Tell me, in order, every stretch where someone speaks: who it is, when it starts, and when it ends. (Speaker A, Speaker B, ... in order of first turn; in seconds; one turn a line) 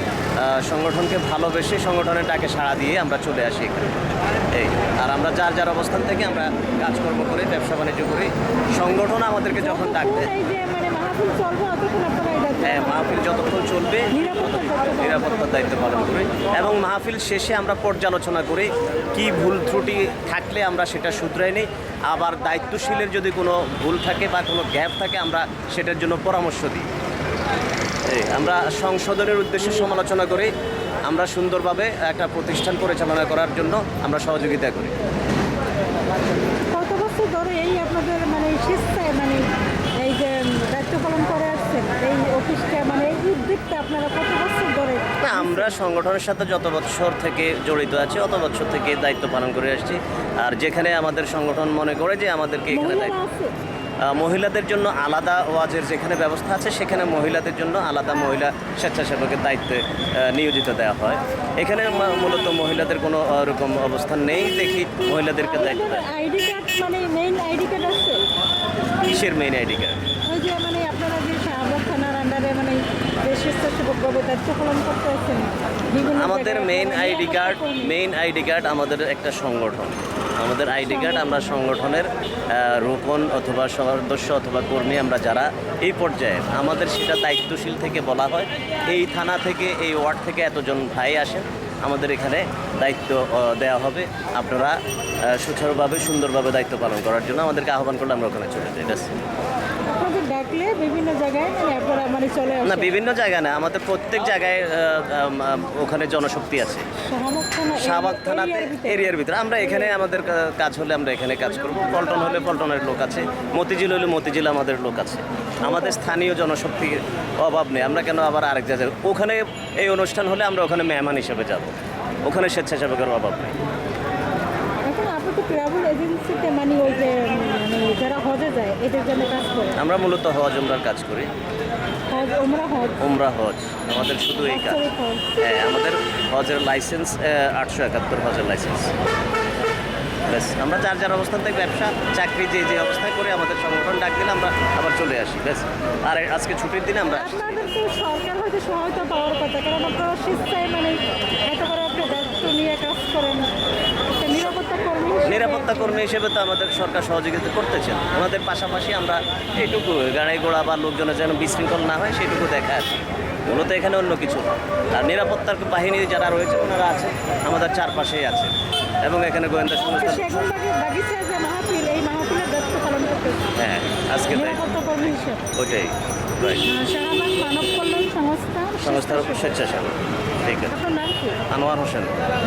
Speaker A: 0.4-3.9
Speaker A: 4.5-10.3
Speaker B: 9.5-15.5
Speaker A: 12.6-26.9
Speaker A: 28.1-30.5
Speaker A: 31.1-34.9
Speaker B: 36.7-39.5
Speaker B: 40.0-45.8
Speaker A: 45.2-53.2
Speaker B: 52.7-53.5
Speaker A: 54.0-66.1
Speaker B: 65.5-68.2
Speaker A: 69.0-70.0
Speaker B: 70.3-78.0
Speaker A: 76.0-94.8
Speaker B: 80.8-81.5
Speaker A: 95.3-99.2
Speaker B: 99.9-102.9
Speaker A: 102.6-106.9
Speaker B: 107.0-110.0
Speaker A: 107.7-123.6
Speaker B: 115.6-116.0
Speaker B: 124.9-129.8
Speaker A: 129.8-131.3
Speaker B: 132.1-133.0
Speaker A: 133.0-134.9
Speaker B: 134.4-135.3
Speaker A: 135.4-138.9
Speaker A: 140.3-147.6
Speaker B: 147.1-153.5
Speaker B: 154.2-156.0
Speaker A: 155.3-168.5
Speaker A: 169.0-170.5
Speaker B: 169.8-173.5
Speaker A: 173.6-176.6
Speaker B: 174.3-175.4
Speaker B: 176.6-179.6
Speaker A: 178.8-180.7
Speaker B: 180.7-181.4
Speaker A: 181.5-182.2